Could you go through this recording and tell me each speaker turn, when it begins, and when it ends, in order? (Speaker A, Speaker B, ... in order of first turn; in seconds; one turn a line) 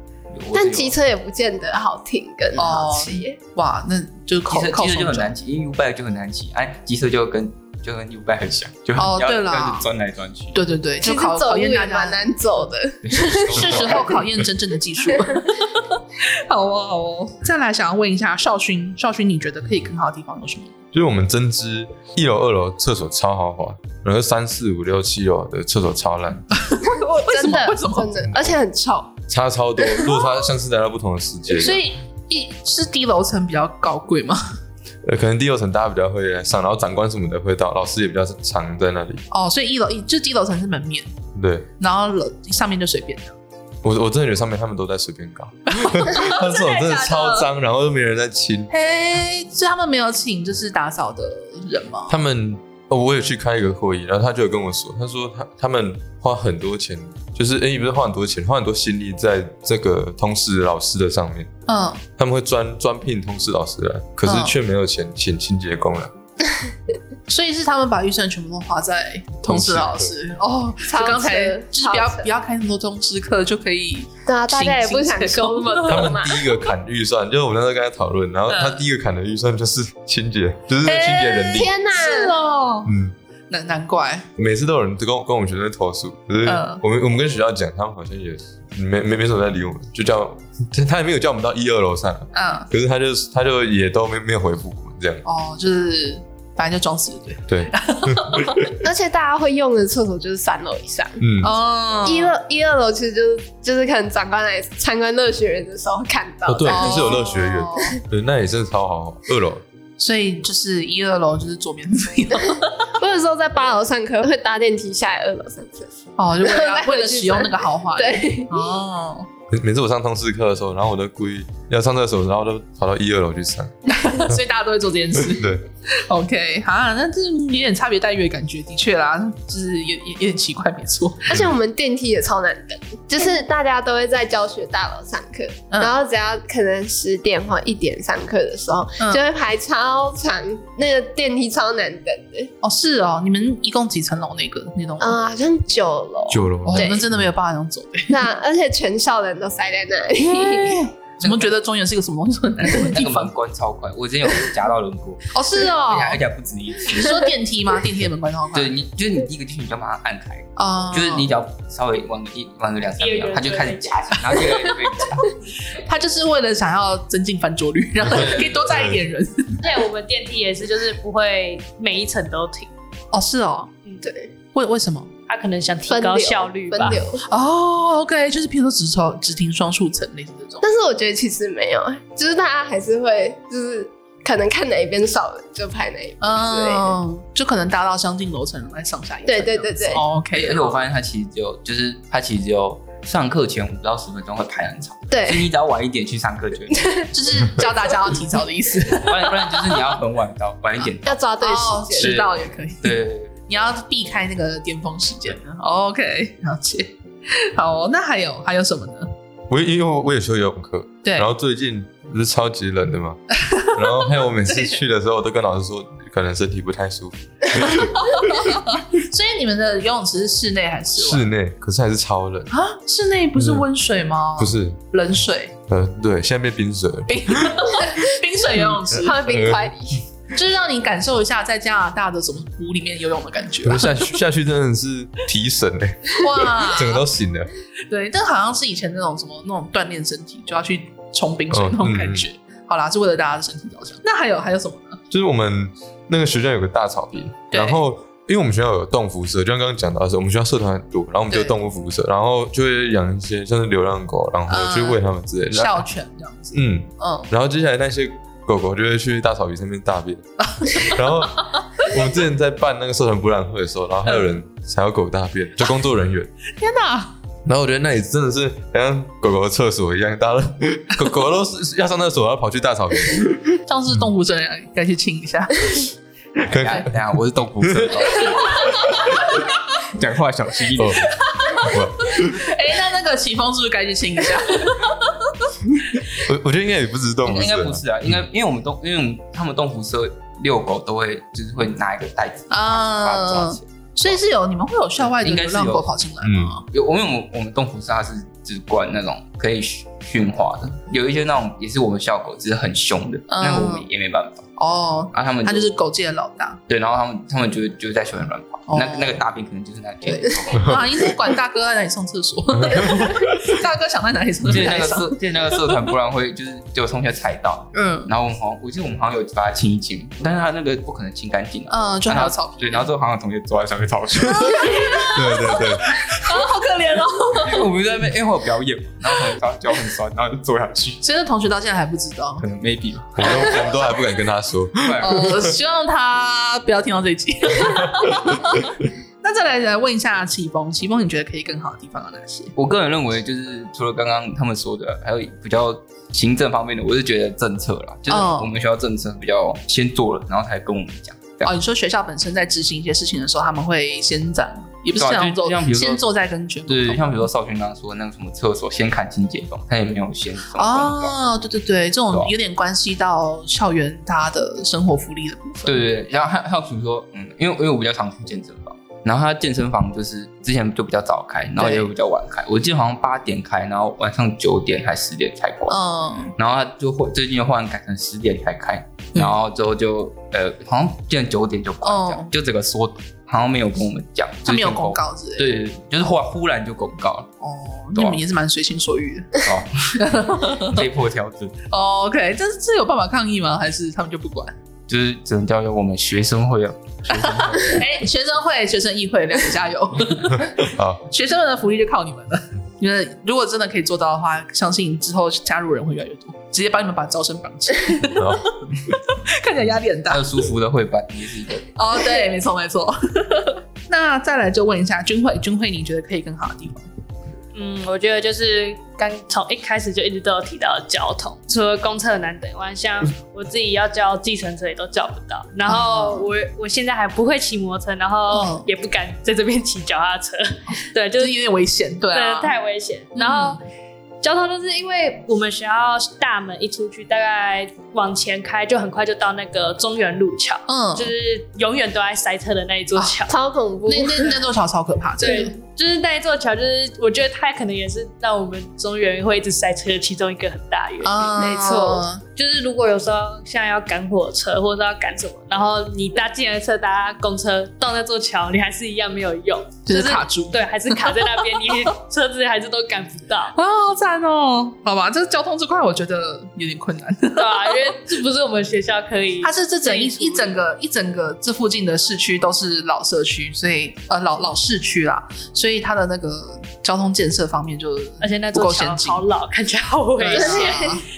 Speaker A: 0.3-1.0
Speaker B: 0.5-3.4
Speaker C: 2.5-5.3
Speaker A: 4.5-10.6
Speaker C: 8.9-9.9
Speaker C: 10.5-12.3
Speaker B: 11.0-14.1
Speaker A: 13.0-14.2
Speaker C: 13.5-20.8
Speaker D: 20.9-26.5
Speaker C: 26.6-28.1
Speaker B: 26.8-29.1
Speaker D: 28.3-28.6
Speaker D: 29.3-31.8
Speaker B: 29.8-30.4
Speaker C: 31.5-34.5
Speaker D: 35.0-39.2
Speaker C: 39.3-41.1
Speaker D: 41.3-41.7
Speaker C: 41.8-43.3
Speaker D: 43.8-48.7
Speaker C: 45.8-47.5
Speaker C: 48.7-52.1
Speaker D: 52.1-61.5
Speaker C: 61.7-62.0
Speaker D: 62.2-66.1
Speaker C: 64.2-64.5
Speaker C: 67.3-76.1
Speaker D: 69.5-70.1
Speaker B: 70.9-72.3
Speaker B: 74.3-76.5
Speaker D: 75.9-81.7
Speaker C: 78.5-78.8
Speaker C: 80.8-82.9
Speaker B: 81.5-82.3
Speaker D: 82.8-83.1
Speaker C: 83.5-84.2
Speaker D: 84.3-95.2
Speaker C: 86.4-86.8
Speaker C: 92.3-92.7
Speaker C: 95.2-98.7
Speaker D: 97.5-98.6
Speaker B: 98.8-101.3
Speaker D: 101.2-101.5
Speaker C: 101.4-102.3
Speaker B: 102.0-107.3
Speaker D: 106.5-109.6
Speaker C: 106.6-107.9
Speaker C: 110.0-112.8
Speaker B: 113.0-118.7
Speaker C: 116.2-119.3
Speaker D: 119.5-123.7
Speaker C: 123.9-131.3
Speaker D: 125.2-125.6
Speaker B: 131.3-142.5
Speaker C: 142.6-145.1
Speaker B: 145.0-147.0
Speaker D: 146.3-147.2
Speaker C: 146.6-148.2
Speaker B: 148.1-150.9
Speaker C: 150.2-153.3
Speaker A: 152.8-157.2
Speaker C: 155.3-156.2
Speaker C: 156.8-158.7
Speaker A: 158.5-165.3
Speaker C: 160.6-161.3
Speaker E: 163.0-164.8
Speaker C: 165.8-169.6
Speaker A: 168.2-168.6
Speaker E: 169.6-172.7
Speaker C: 173.1-173.7
Speaker B: 174.0-174.3
Speaker C: 174.5-175.1
Speaker E: 175.3-177.0
Speaker B: 175.9-177.2
Speaker C: 177.2-180.6
Speaker B: 180.6-187.0
Speaker C: 186.2-190.8
Speaker B: 189.2-190.0
Speaker A: 190.3-197.0
Speaker B: 195.1-195.5
Speaker B: 196.7-197.1
Speaker C: 197.1-199.9
Speaker A: 198.9-201.3
Speaker B: 201.0-202.2
Speaker C: 201.4-209.1
Speaker A: 202.0-203.4
Speaker D: 209.5-213.2
Speaker C: 213.3-214.8
Speaker D: 213.7-218.2
Speaker C: 218.0-221.3
Speaker D: 220.9-222.5
Speaker C: 222.5-225.5
Speaker D: 223.3-223.7
Speaker D: 224.4-224.8
Speaker D: 225.7-227.8
Speaker C: 227.1-229.2
Speaker B: 228.9-230.1
Speaker D: 229.2-229.7
Speaker C: 230.3-234.1
Speaker D: 233.6-237.5
Speaker C: 236.2-237.0
Speaker C: 237.9-245.0
Speaker D: 241.5-242.3
Speaker D: 245.1-255.8
Speaker C: 247.5-247.8
Speaker C: 251.3-251.5
Speaker C: 254.5-255.0
Speaker C: 255.5-257.3
Speaker D: 256.5-266.3
Speaker C: 260.4-261.0
Speaker C: 266.6-267.1
Speaker D: 267.4-274.1
Speaker C: 273.7-275.9
Speaker A: 276.4-278.7
Speaker D: 276.5-277.0
Speaker C: 276.6-276.9
Speaker D: 277.6-278.0
Speaker C: 278.3-278.8
Speaker A: 279.9-281.1
Speaker D: 280.7-282.5
Speaker C: 281.1-285.2
Speaker D: 286.1-288.3
Speaker A: 287.2-294.2
Speaker C: 292.5-296.6
Speaker A: 295.0-295.9
Speaker D: 296.2-296.5
Speaker A: 296.7-304.5
Speaker C: 303.3-303.9
Speaker C: 304.6-306.6
Speaker A: 305.1-305.7
Speaker A: 306.7-311.1
Speaker C: 308.7-309.2
Speaker C: 310.0-315.9
Speaker D: 312.6-313.2
Speaker A: 314.4-324.9
Speaker C: 317.7-318.1
Speaker C: 321.7-322.9
Speaker C: 324.3-327.7
Speaker D: 325.1-326.0
Speaker A: 327.4-331.0
Speaker C: 331.0-332.4
Speaker A: 332.4-333.7
Speaker D: 333.1-335.5
Speaker A: 334.8-335.3
Speaker C: 335.0-338.6
Speaker C: 339.2-342.5
Speaker A: 342.6-351.5
Speaker C: 348.1-348.5
Speaker C: 351.4-357.2
Speaker A: 354.9-356.0
Speaker A: 356.7-361.2
Speaker C: 360.5-365.8
Speaker A: 365.6-375.8
Speaker C: 371.6-371.9
Speaker C: 375.7-376.3
Speaker A: 376.4-387.3
Speaker C: 381.8-382.3
Speaker C: 384.4-385.5
Speaker C: 387.4-389.3
Speaker A: 387.9-388.2
Speaker A: 389.4-391.6
Speaker C: 389.9-390.9
Speaker C: 391.7-394.5
Speaker A: 394.9-397.8
Speaker C: 397.1-408.5
Speaker D: 400.6-401.0
Speaker D: 408.2-408.5
Speaker C: 409.3-410.2
Speaker A: 410.1-411.6
Speaker C: 411.7-416.9
Speaker E: 417.5-431.4
Speaker C: 425.7-426.3
Speaker C: 428.3-428.7
Speaker C: 431.2-432.5
Speaker E: 432.1-433.6
Speaker C: 433.1-433.6
Speaker E: 434.2-443.3
Speaker C: 440.7-441.1
Speaker B: 443.3-444.4
Speaker C: 443.9-445.5
Speaker E: 445.2-451.3
Speaker C: 451.0-452.2
Speaker B: 451.4-452.1
Speaker E: 452.3-463.5
Speaker C: 459.9-461.2
Speaker C: 463.5-467.9
Speaker E: 467.4-470.6
Speaker C: 469.4-479.2
Speaker E: 478.2-480.9
Speaker C: 480.2-481.0
Speaker B: 480.3-480.9